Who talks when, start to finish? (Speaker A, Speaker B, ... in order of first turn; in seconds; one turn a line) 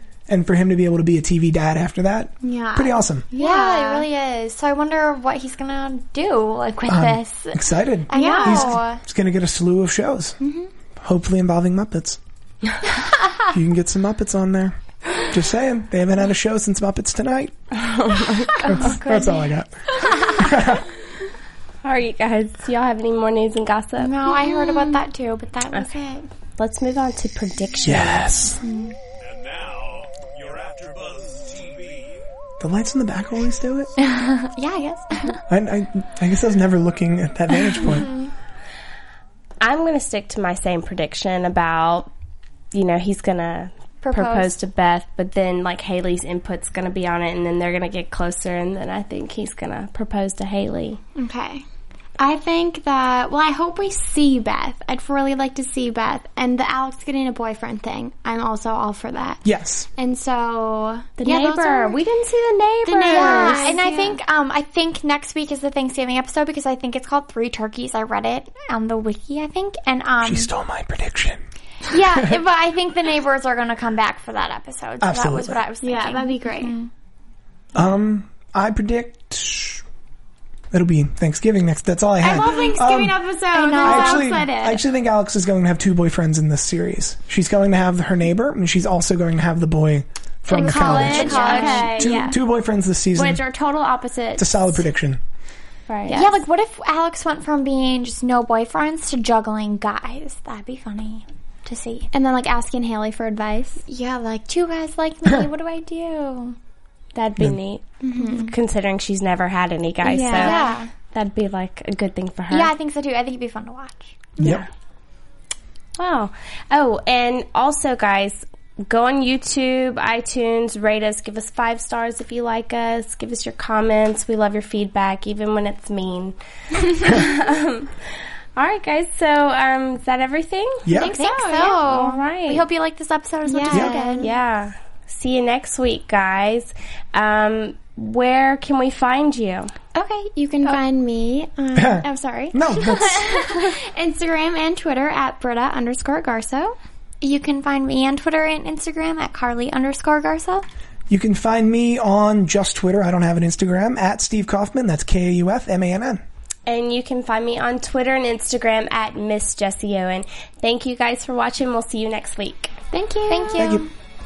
Speaker A: 0.3-3.3
Speaker B: 2.4-4.1
Speaker C: 3.3-9.0
Speaker A: 6.9-10.4
Speaker B: 8.1-8.8
Speaker B: 10.4-10.7
Speaker A: 11.0-12.2
Speaker A: 13.5-17.5
Speaker D: 17.7-18.8
Speaker C: 18.6-19.4
Speaker A: 18.6-20.8
Speaker D: 21.8-24.6
Speaker C: 24.0-26.3
Speaker B: 24.5-24.9
Speaker D: 26.6-28.5
Speaker A: 27.8-28.6
Speaker C: 28.6-28.9
Speaker E: 29.5-32.0
Speaker A: 32.6-33.9
Speaker C: 34.0-35.4
Speaker A: 35.5-38.1
Speaker C: 37.9-38.3
Speaker D: 39.6-42.1
Speaker D: 42.7-51.0
Speaker C: 44.0-44.5
Speaker B: 51.2-51.6
Speaker B: 52.2-59.4
Speaker A: 59.5-59.9
Speaker B: 60.0-62.0
Speaker D: 61.2-63.8
Speaker B: 62.9-64.2
Speaker C: 63.1-70.5
Speaker A: 70.2-71.4
Speaker C: 71.9-76.9
Speaker A: 75.0-75.6
Speaker B: 75.8-76.8
Speaker A: 77.8-79.8
Speaker A: 80.7-83.2
Speaker B: 82.2-84.8
Speaker C: 82.3-82.7
Speaker C: 83.5-84.4
Speaker A: 83.8-93.5
Speaker D: 90.5-92.2
Speaker C: 90.5-92.3
Speaker B: 90.5-92.3
Speaker B: 93.2-94.7
Speaker A: 94.4-95.2
Speaker D: 95.9-96.3
Speaker B: 96.1-96.3
Speaker C: 96.1-102.1
Speaker B: 102.1-103.8
Speaker C: 103.9-106.6
Speaker D: 107.2-112.7
Speaker B: 108.0-108.5
Speaker C: 108.2-108.5
Speaker B: 110.0-110.8
Speaker C: 110.3-110.9
Speaker C: 112.5-114.3
Speaker A: 114.4-114.6
Speaker D: 114.4-114.7
Speaker D: 116.0-128.0
Speaker D: 128.6-132.7
Speaker A: 130.8-131.1
Speaker C: 131.0-134.3
Speaker B: 131.0-131.8
Speaker B: 133.5-134.3
Speaker D: 134.2-139.7
Speaker B: 139.9-146.8
Speaker C: 140.3-140.8
Speaker A: 141.8-143.4
Speaker C: 143.5-143.7
Speaker C: 147.2-150.7
Speaker A: 151.1-156.2
Speaker D: 156.7-162.8
Speaker B: 162.9-163.8
Speaker C: 163.3-163.9
Speaker A: 163.6-163.9